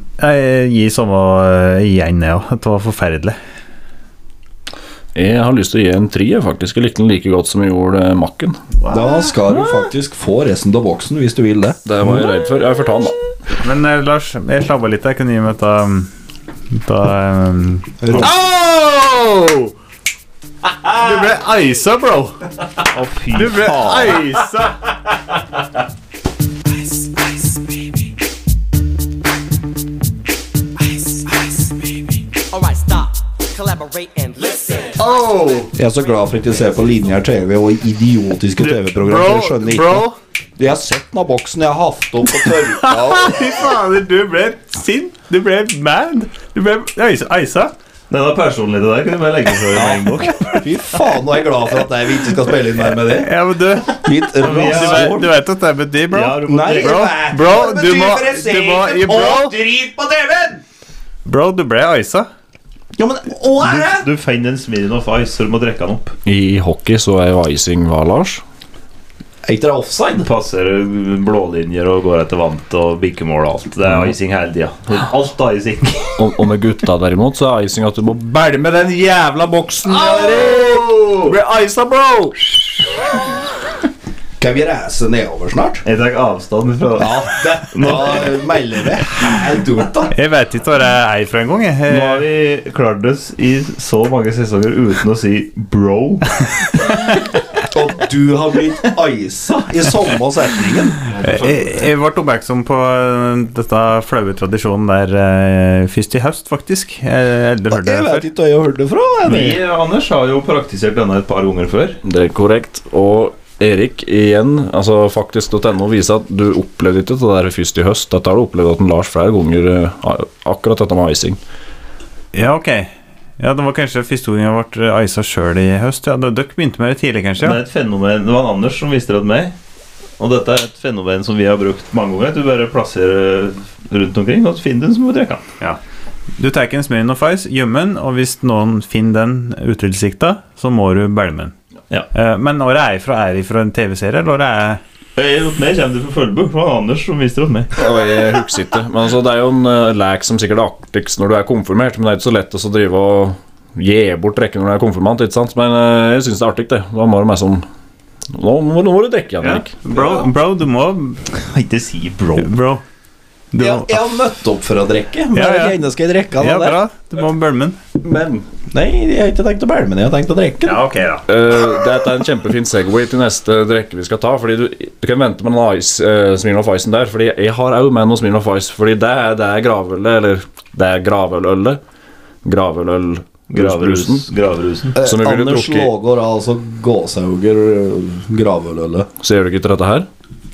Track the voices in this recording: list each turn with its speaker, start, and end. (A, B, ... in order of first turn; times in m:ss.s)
0:00.2-0:03.4 A
0:05.2-0:08.6 B
0:08.9-0:11.8 C
0:11.8-0:13.2 B
0:13.6-0:16.1 A
0:16.7-0:19.7 A
0:18.0-0:18.3 C
0:20.8-0:22.4 A
0:22.9-0:24.2 D
0:23.3-0:24.8 A
0:30.9-0:31.4 E
0:32.5-0:35.5 E
0:35.0-0:35.7 A
0:35.7-0:43.4 C
0:38.6-0:40.2 A
0:42.4-0:47.7 A
0:48.1-0:50.6 D
0:49.7-0:53.3 C
0:53.1-0:59.6 A
0:53.8-0:55.3 C
0:54.4-0:55.3 D
0:56.1-0:57.1 D
0:56.4-1:00.6 C
1:01.3-1:02.3 A
1:03.0-1:04.1 C
1:03.6-1:06.2 D
1:06.2-1:08.4 B
1:09.4-1:10.3 C
1:10.2-1:16.1 D
1:13.9-1:14.1 B
1:16.2-1:22.3 B
1:20.0-1:20.6 C
1:24.4-1:25.8 C
1:25.8-1:28.4 D
1:27.0-1:30.1 C
1:30.1-1:32.2 A
1:31.9-1:36.3 D
1:37.7-1:41.5 C
1:41.2-1:48.3 A
1:47.7-1:49.6 C
1:49.2-1:52.0 D
1:52.0-2:01.4 B
2:02.3-2:07.6 A
2:07.4-2:09.6 D
2:10.2-2:15.4 D
2:16.4-2:21.5 A
2:22.1-2:24.8 A
2:25.2-2:27.7 D
2:27.8-2:37.7 B
2:38.3-2:39.7 B
2:39.4-2:41.2 A
2:41.4-2:42.5 D
2:42.4-2:42.8 A
2:43.5-2:44.0 A
2:43.6-2:46.8 C
2:45.3-2:45.8 A
2:46.4-2:47.8 A
2:48.0-2:48.5 B
2:48.7-2:50.8 C
2:50.6-2:51.2 A
2:51.3-3:01.8 B
3:02.4-3:04.3 B
3:03.5-3:04.9 D
3:05.0-3:09.1 C
3:05.0-3:05.9 B
3:09.2-3:10.1 B